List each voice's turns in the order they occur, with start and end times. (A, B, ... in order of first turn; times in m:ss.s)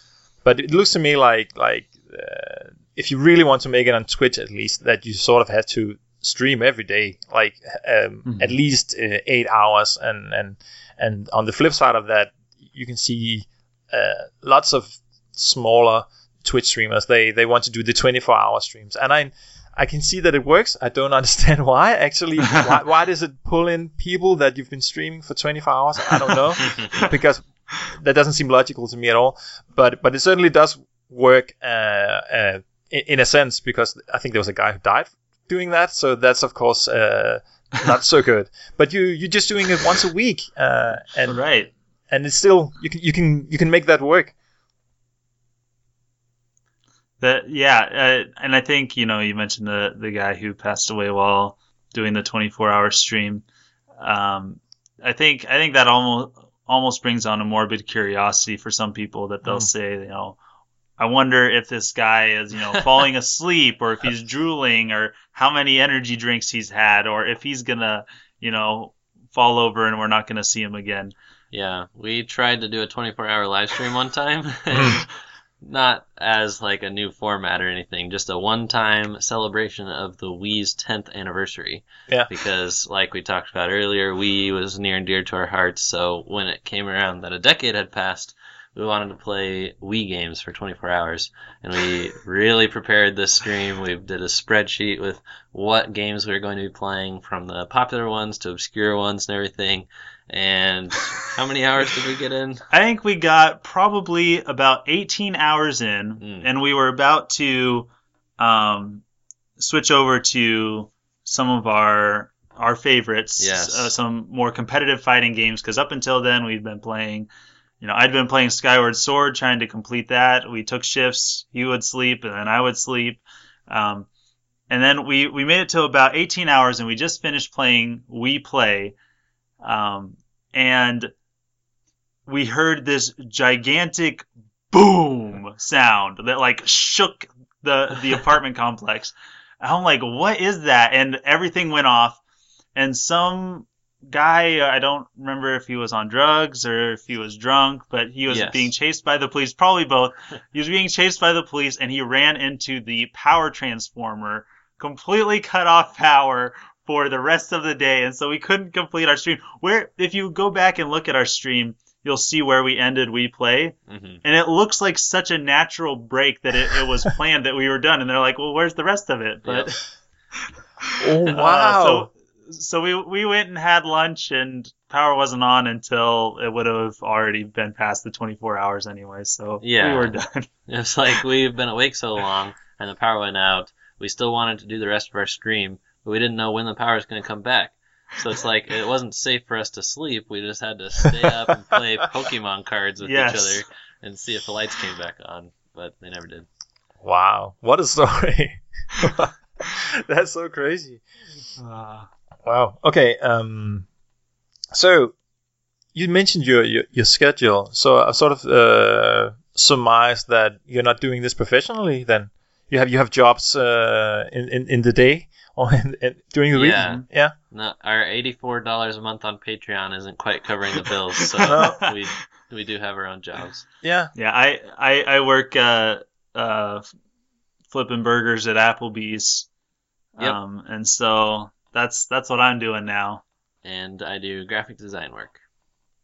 0:00.4-0:41.4 A
0:08.2-0:08.6 B
0:41.3-0:41.7 B
0:42.1-0:44.3 A
0:47.2-0:53.4 B
0:54.0-1:00.4 B
1:01.0-1:11.1 B
1:11.5-1:15.1 C
1:14.7-1:15.0 A
1:15.6-1:42.7 C
1:42.7-1:49.0 B
1:46.2-1:46.5 C
1:49.6-1:57.3 B
1:53.4-1:53.9 C
1:57.8-2:04.1 B
2:04.7-2:09.0 B
2:09.6-2:11.1 B
2:12.3-2:22.2 B
2:22.8-2:49.8 B
2:28.3-2:28.7 C
2:43.9-2:44.2 C
2:49.4-2:49.7 C
2:50.9-3:00.5 B
2:51.0-2:52.1 A
2:59.6-3:00.2 C
3:00.7-3:16.5 C
3:13.0-3:13.6 B
3:17.0-3:21.0 A
3:21.6-3:22.1 B
3:22.4-3:23.9 A
3:24.7-3:25.1 A
3:26.0-3:37.3 A
3:36.5-3:43.6 C
3:41.4-3:42.0 B
3:41.5-3:41.8 A
3:43.8-3:44.1 A
3:44.2-3:46.8 B
3:47.7-3:49.5 B
3:50.2-3:53.2 B
3:53.6-3:55.4 C